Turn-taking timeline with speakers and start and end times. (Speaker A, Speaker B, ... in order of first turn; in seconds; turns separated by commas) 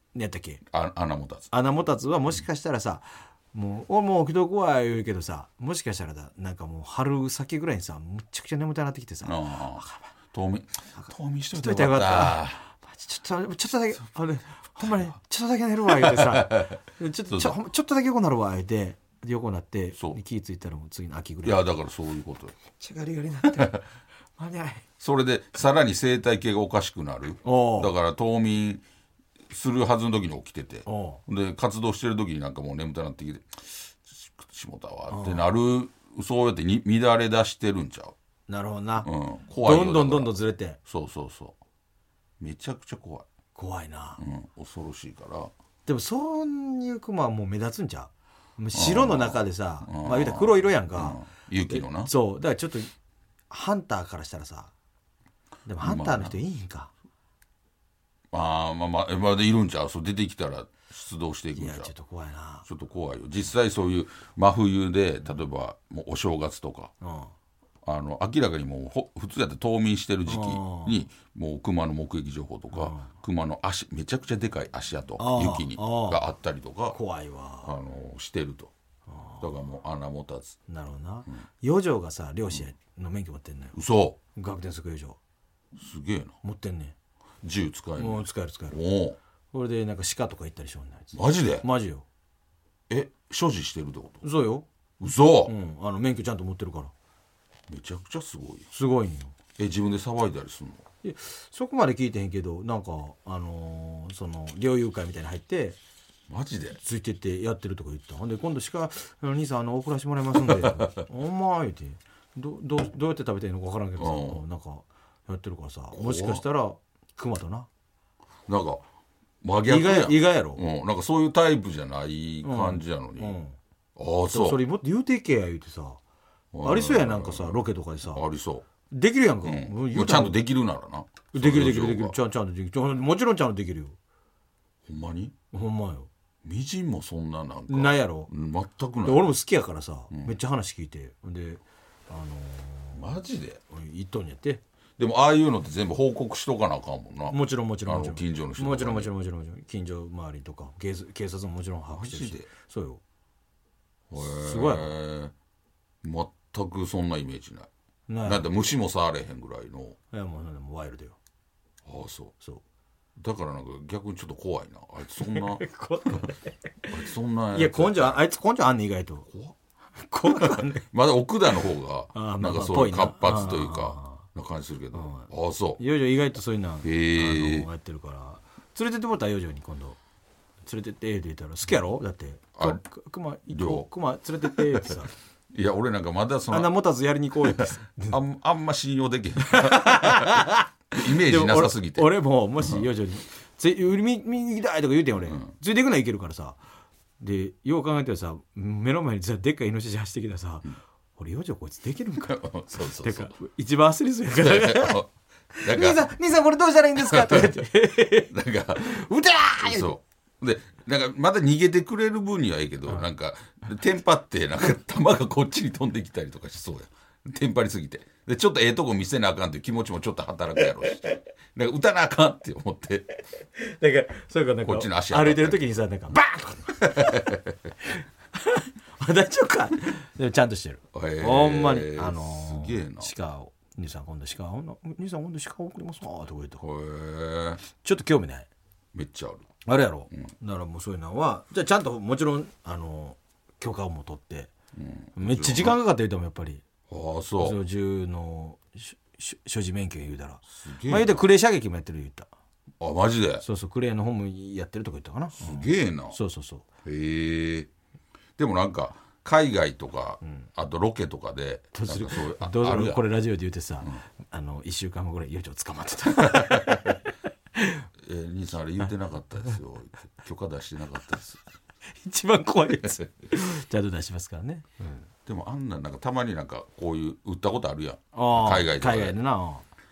Speaker A: 0.1-0.6, Speaker B: 0.7-1.5, Speaker A: 1.5-10.1, Speaker B: 9.2-12.6, Speaker A: 11.0-21.6, Speaker B: 15.9-16.8, Speaker B: 17.3-17.6, Speaker B: 21.4-22.5, Speaker A: 22.7-23.8, Speaker B: 23.4-23.8, Speaker A: 24.4-24.8, Speaker B: 25.0-28.8, Speaker A: 27.4-27.9, Speaker B: 29.5-38.1, Speaker A: 30.9-31.2, Speaker A: 35.1-35.4, Speaker A: 38.5-39.1, Speaker B: 39.0-40.3, Speaker A: 39.6-40.8, Speaker B: 40.9-41.6, Speaker B: 42.4-43.3, Speaker A: 43.5-44.2, Speaker B: 44.2-45.5, Speaker A: 45.9-52.9, Speaker B: 48.7-52.1, Speaker A: 53.5-54.7, Speaker A: 55.6-56.9, Speaker B: 55.8-56.4, Speaker B: 58.3-61.9, Speaker A: 61.5-62.6, Speaker B: 62.6-66.9, Speaker A: 67.0-67.3, Speaker B: 67.8-77.0, Speaker A: 70.3-71.0, Speaker A: 72.7-73.1, Speaker A: 75.2-76.2, Speaker A: 76.9-77.7, Speaker B: 77.6-78.7, Speaker A: 79.1-79.4, Speaker B: 79.4-80.6, Speaker A: 80.7-83.8, Speaker B: 83.7-84.2, Speaker A: 84.3-85.2, Speaker B: 85.8-86.3, Speaker A: 86.4-86.9, Speaker B: 87.4-89.2, Speaker A: 88.0-88.8, Speaker A: 89.5-92.0, Speaker B: 91.1-91.6, Speaker B: 92.9-94.2, Speaker A: 94.2-94.7, Speaker B: 95.0-95.5, Speaker A: 95.5-96.9, Speaker B: 97.7-98.7, Speaker A: 98.7-99.3, Speaker B: 99.6-100.8, Speaker A: 101.0-105.8, Speaker B: 106.3-106.8, Speaker A: 106.8-117.7, Speaker B: 110.4-110.9, Speaker B: 114.0-114.4, Speaker B: 115.9-116.4, Speaker B: 118.5-118.8, Speaker B: 119.4-123.3, Speaker A: 119.7-120.6, Speaker A: 122.4-123.5, Speaker B: 124.0-124.6, Speaker A: 124.3-126.0, Speaker B: 126.5-128.7, Speaker A: 126.6-128.2, Speaker A: 128.9-130.4, Speaker B: 129.4-132.2, Speaker A: 131.3-134.0, Speaker B: 134.8-135.3, Speaker A: 135.5-136.1, Speaker B: 136.4-139.3, Speaker A: 137.7-138.3, Speaker A: 139.0-143.1, Speaker B: 140.1-140.3, Speaker B: 142.9-143.6, Speaker A: 143.7-144.6, Speaker B: 145.0-149.1, Speaker A: 147.3-153.0, Speaker B: 151.9-152.5, Speaker B: 154.1-155.3, Speaker A: 154.2-154.9, Speaker B: 156.0-157.7, Speaker A: 158.1-158.4, Speaker B: 158.2-160.0, Speaker A: 160.1-161.2, Speaker B: 161.8-162.3, Speaker B: 163.2-165.6, Speaker A: 165.2-167.0, Speaker B: 166.9-168.2, Speaker A: 167.5-169.3, Speaker A: 170.0-170.9, Speaker B: 170.2-175.8, Speaker A: 172.1-174.2, Speaker A: 174.9-180.0, Speaker B: 176.8-177.7, Speaker A: 180.6-185.1, Speaker B: 183.5-183.9, Speaker B: 184.4-184.9, Speaker B: 185.5-186.7, Speaker A: 186.5-188.2, Speaker B: 187.4-192.9, Speaker A: 189.4-196.6, Speaker B: 195.2-195.5, Speaker A: 197.2-205.0, Speaker B: 202.2-203.3, Speaker B: 204.4-205.1, Speaker A: 205.6-210.0, Speaker B: 205.6-206.1, Speaker B: 207.0-207.6, Speaker B: 208.3-209.0, Speaker B: 209.6-223.1, Speaker A: 223.6-227.4, Speaker B: 224.6-225.6, Speaker B: 226.9-227.5, Speaker A: 228.3-236.6, Speaker B: 230.9-233.1, Speaker B: 236.6-237.6, Speaker A: 237.7-238.5, Speaker B: 238.9-239.5, Speaker A: 239.6-244.5, Speaker B: 244.7-245.8, Speaker A: 245.2-246.6, Speaker B: 246.9-247.6, Speaker A: 247.4-252.3, Speaker B: 250.5-251.2, Speaker B: 252.8-253.4, Speaker A: 253.4-256.6, Speaker B: 255.4-256.2, Speaker B: 256.8-257.7, Speaker B: 258.4-263.0, Speaker A: 261.7-267.0, Speaker B: 266.2-266.9, Speaker A: 267.5-267.8, Speaker B: 268.0-271.4, Speaker A: 271.9-275.1, Speaker B: 275.2-279.2, Speaker A: 278.1-279.6